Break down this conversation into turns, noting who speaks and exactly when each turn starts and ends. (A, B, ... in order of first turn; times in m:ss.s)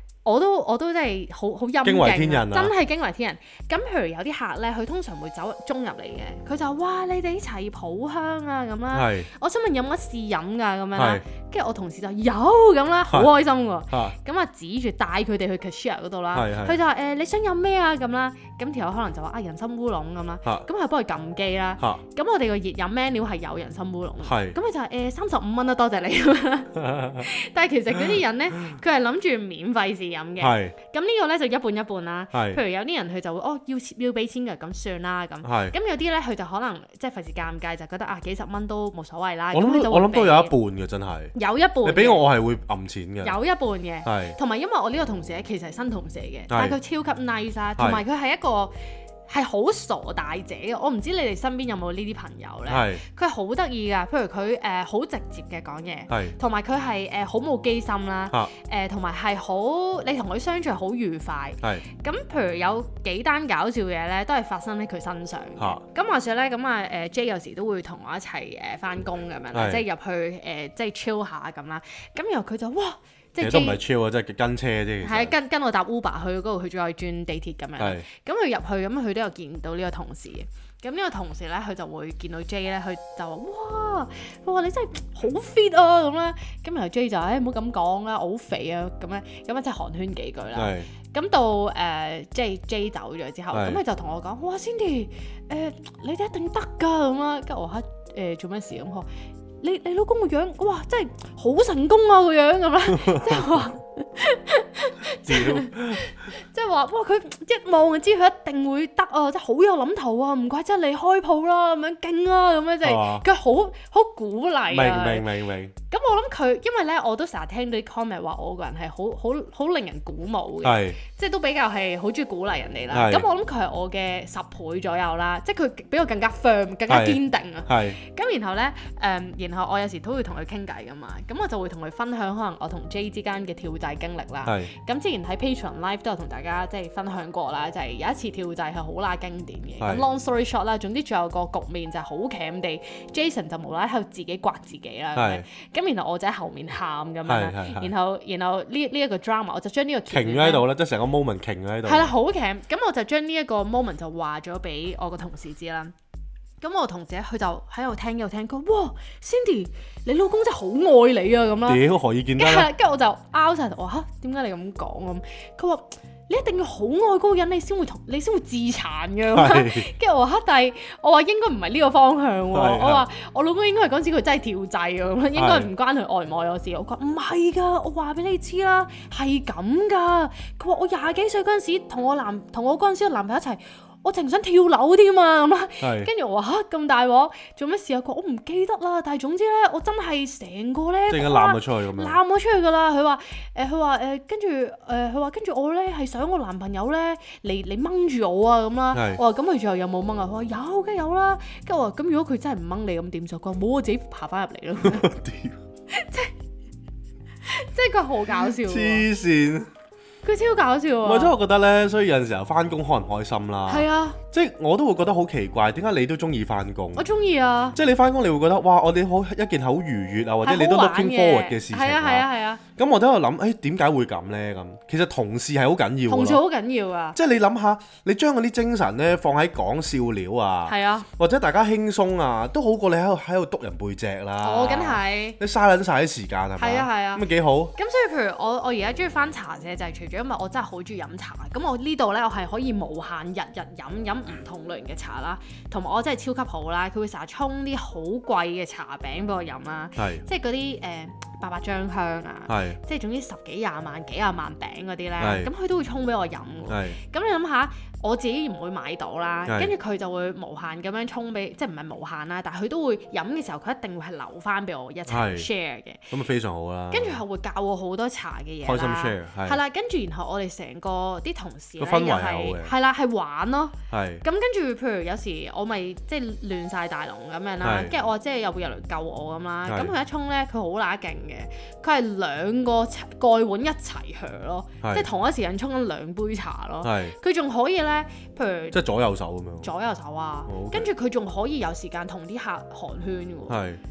0:00.2-0:40.5 A
0:01.8-0:02.7 B
0:08.9-0:09.3 B
0:11.0-0:11.2 B
0:16.3-0:16.8 B
0:24.2-0:24.6 B
0:26.8-0:27.3 B
0:30.4-0:30.8 B
0:32.3-0:32.6 B
0:35.4-0:35.7 B
0:39.5-0:43.4 B
0:41.4-0:42.3 A
0:43.2-1:13.8 A
0:44.0-0:44.4 B
0:46.5-0:46.8 B
0:52.7-0:53.0 B
0:56.1-0:56.4 B
1:09.5-1:09.8 B
1:13.4-1:15.3 B
1:15.0-1:39.1 A
1:17.8-1:18.1 B
1:30.6-1:30.9 B
1:33.5-1:33.8 B
1:39.6-1:55.3 A
1:42.9-1:43.6 B
1:45.3-1:46.1 B
1:52.8-1:53.2 B
1:54.7-1:55.7 B
1:55.9-2:30.6 A
2:00.6-2:01.0 B
2:02.9-2:03.3 B
2:06.9-2:08.0 B
2:14.4-2:14.7 B
2:19.8-2:20.1 B
2:25.2-2:25.4 B
2:27.3-2:27.9 B
2:30.1-2:32.1 B
2:31.8-2:35.9 A
2:36.6-2:41.8 A
2:41.7-2:42.7 B
2:42.4-3:25.1 A
2:49.3-2:49.9 B
2:52.5-2:53.1 B
2:55.4-2:55.7 B
3:05.8-3:06.1 B
3:11.1-3:12.2 B
3:18.9-3:19.2 B
3:24.8-3:25.6 B
3:25.9-3:26.3 A
3:27.4-3:29.1 A
3:28.3-3:29.7 B
3:30.2-3:31.3 A
3:31.0-3:37.1 B
3:33.7-3:34.2 A
3:37.0-3:37.8 A
3:37.8-3:46.4 B
3:40.4-3:42.6 A
3:46.1-3:47.2 A
3:47.2-3:57.7 B
3:50.7-3:51.1 A
3:54.4-3:55.4 A
3:56.6-4:26.1 A
4:10.0-4:10.2 B
4:12.5-4:12.8 B
4:15.2-4:15.5 B
4:16.7-4:17.0 B
4:19.5-4:19.7 B
4:25.1-4:25.5 B
4:26.1-4:27.2 B
4:26.9-4:48.8 A
4:28.6-4:29.6 B
4:31.8-4:32.7 B
4:33.9-4:34.2 B
4:37.6-4:37.9 B
4:39.7-4:39.9 B
4:44.8-4:45.1 B
4:46.8-4:47.2 B
4:48.7-4:49.7 B
4:49.6-4:53.6 A
4:50.5-4:50.9 B
4:53.5-4:53.8 B